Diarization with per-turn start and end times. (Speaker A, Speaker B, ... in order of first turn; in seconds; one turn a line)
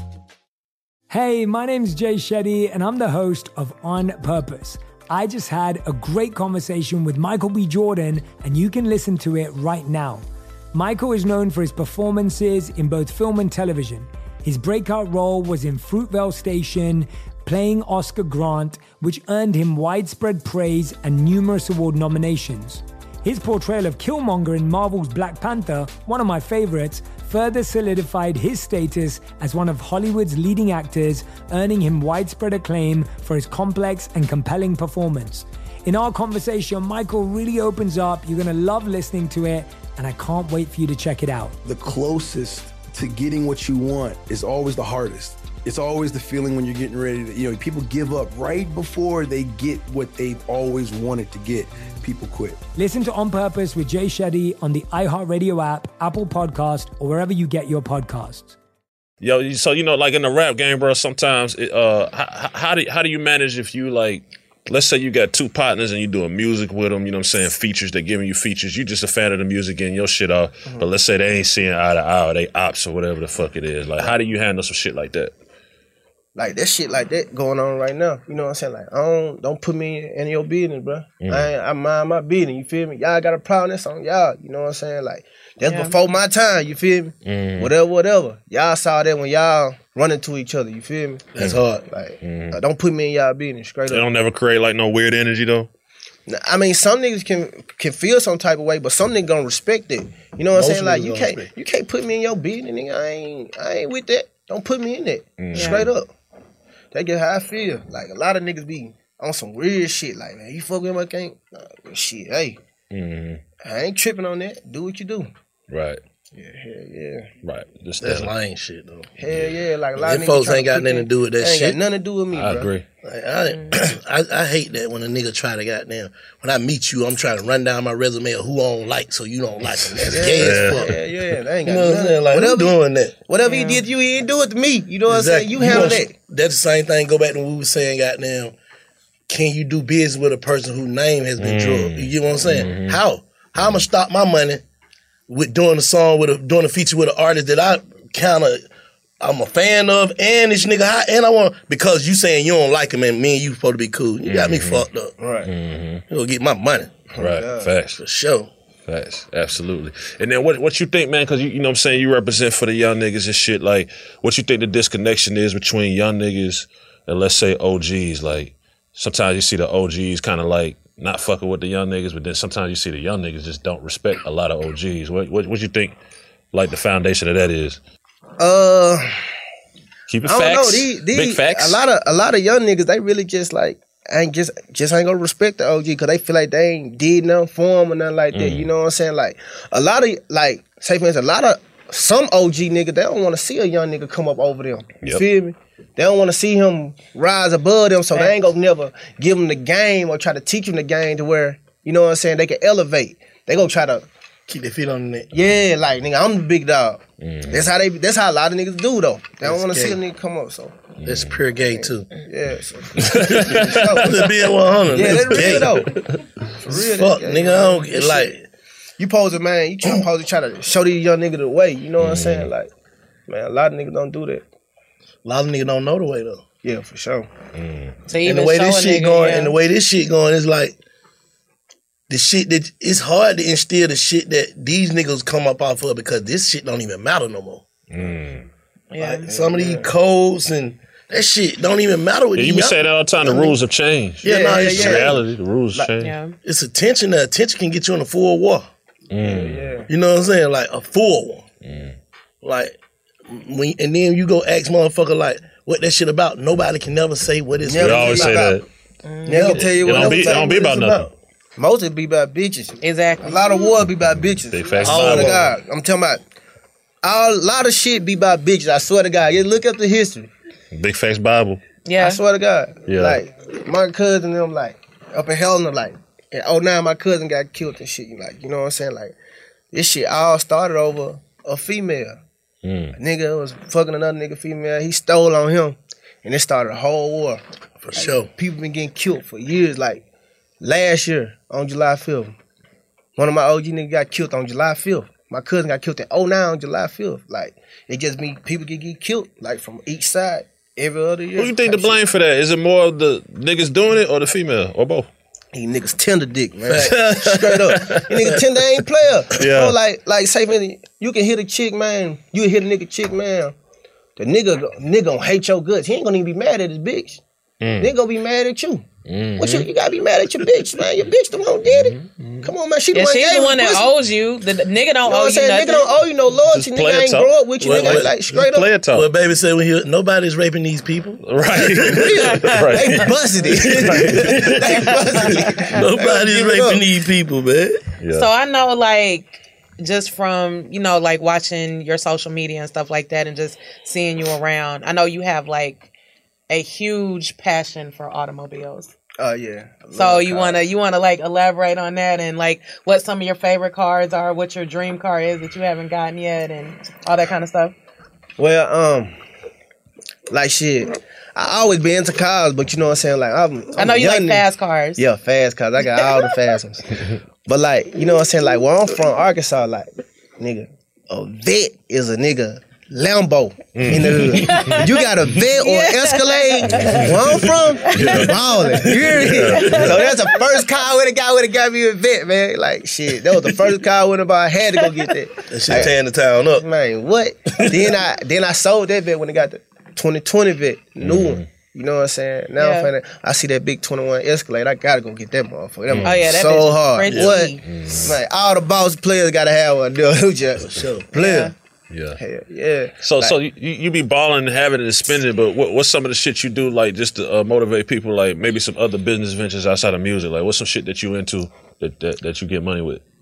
Speaker A: 1.1-41.6
Speaker B: 41.6-52.6
Speaker A: 52.8-58.5
Speaker C: 59.2-75.3
Speaker D: 76.3-91.3
Speaker C: 81.2-81.5
Speaker E: 85.7-86.0
Speaker C: 87.2-87.7
Speaker F: 91.3-91.8
Speaker D: 91.8-94.0
Speaker C: 92.2-92.6
Speaker C: 93.9-95.7
Speaker D: 96.3-106.1
Speaker F: 100.5-101.5
Speaker C: 105.4-105.9
Speaker E: 105.5-105.9
Speaker D: 106.9-112.6
Speaker C: 112.9-113.4
Speaker D: 113.6-115.3
Speaker C: 115.7-116.0
Speaker D: 116.3-117.3
Speaker C: 117.4-118.3
Speaker F: 118.0-119.1
Speaker D: 119.2-122.7
Speaker F: 120.0-121.8
Speaker C: 122.3-122.8
Speaker F: 123.0-130.9
Speaker E: 123.5-123.8
Speaker D: 130.1-132.8
Speaker C: 130.3-130.9
Speaker F: 131.6-133.1
Speaker D: 133.3-136.1
Speaker E: 133.4-133.8
Speaker F: 135.1-138.5
Speaker F: 139.3-144.6
Speaker C: 141.4-143.0
Speaker F: 145.3-148.6
Speaker F: 149.2-155.1
Speaker C: 154.2-154.9
Speaker D: 155.2-155.5
Speaker C: 155.4-156.0
Speaker F: 156.1-157.1
Speaker D: 157.1-157.7
Speaker C: 157.2-158.0
Speaker F: 158.0-158.5
Speaker C: 158.9-176.0
Speaker C: 176.5-177.8
Speaker D: 178.4-179.1
Speaker C: 180.1-181.8
Speaker D: 180.2-204.1
Speaker C: 188.3-188.7
Speaker F: 204.5-205.3
Speaker D: 205.3-210.9
Speaker C: 207.2-207.7
Speaker F: 209.4-210.0
Speaker C: 211.0-211.4
Speaker F: 211.0-212.1
Speaker D: 211.8-214.1
Speaker C: 213.0-214.2
Speaker F: 213.2-215.9
Speaker D: 214.9-215.9
Speaker C: 215.0-216.2
Speaker D: 216.6-218.3
Speaker F: 216.7-218.4
Speaker D: 219.0-222.7
Speaker C: 222.0-222.5
Speaker D: 223.3-224.4
Speaker F: 225.2-226.4
Speaker D: 226.6-227.3
Speaker C: 227.5-227.9
Speaker E: 228.1-229.5
Speaker F: 228.2-230.8
Speaker F: 232.1-237.7
Speaker C: 237.9-238.5
Speaker E: 238.9-239.3
Speaker F: 239.0-243.5
Speaker D: 239.1-239.9
Speaker C: 242.3-246.2
Speaker F: 244.2-245.2
Speaker D: 244.2-245.2
Speaker E: 246.0-246.3
Speaker F: 246.4-248.7
Speaker C: 249.1-249.7
Speaker D: 249.2-249.9
Speaker F: 249.9-251.5
Speaker C: 251.6-252.0
Speaker F: 252.4-258.4
Speaker D: 257.6-258.6
Speaker C: 257.8-258.6
Speaker E: 259.0-259.6
Speaker D: 259.2-261.0
Speaker C: 259.3-261.1
Speaker D: 261.6-266.2
Speaker E: 262.8-263.5
Speaker C: 264.4-265.5
Speaker F: 264.8-265.5
Speaker D: 267.0-270.3
Speaker C: 270.7-271.6
Speaker E: 271.9-272.2
Speaker D: 272.0-279.1
Speaker C: 272.9-273.2
Speaker D: 279.7-282.2
Speaker C: 282.6-283.0
Speaker D: 282.9-287.4
Speaker F: 287.8-288.3
Speaker D: 287.9-290.1
Speaker D: 290.6-292.3
Speaker D: 293.1-302.0
Speaker C: 301.4-305.1
Speaker D: 305.5-313.5
Speaker F: 306.7-307.6
Speaker C: 306.7-308.3
Speaker C: 309.3-309.8
Speaker D: 314.2-317.2
Speaker C: 317.6-317.9
Speaker D: 317.8-318.9
Speaker C: 319.1-319.7
Speaker D: 319.4-323.9
Speaker C: 321.6-322.5
Speaker E: 322.9-325.9
Speaker D: 325.0-328.7
Speaker C: 326.5-329.1
Speaker F: 327.6-328.1
Speaker F: 328.9-332.3
Speaker C: 331.2-334.7
Speaker D: 331.9-332.2
Speaker E: 332.2-332.6
Speaker D: 332.7-336.8
Speaker F: 333.6-337.8
Speaker E: 335.2-335.7
Speaker C: 338.0-338.3
Speaker E: 338.1-345.9
Speaker E: 346.5-348.9
Speaker D: 349.2-350.6
Speaker E: 349.9-357.7
Speaker D: 358.4-359.1
Speaker D: 360.3-364.4
Speaker E: 363.8-365.0
Speaker D: 365.0-366.9
Speaker D: 367.4-385.9
Speaker C: 373.7-374.8
Speaker E: 374.3-380.5
Speaker C: 376.7-377.2
Speaker C: 377.9-378.4
Speaker C: 379.0-380.1
Speaker F: 385.5-386.6
Speaker D: 386.6-401.5
Speaker F: 387.6-387.9
Speaker C: 391.0-391.4
Speaker E: 392.6-392.9
Speaker C: 395.9-396.2
Speaker E: 396.0-397.6
Speaker C: 397.6-398.2
Speaker F: 400.6-401.1
Speaker E: 401.1-401.5
Speaker C: 401.9-402.2
Speaker D: 402.2-403.4
Speaker C: 403.0-413.0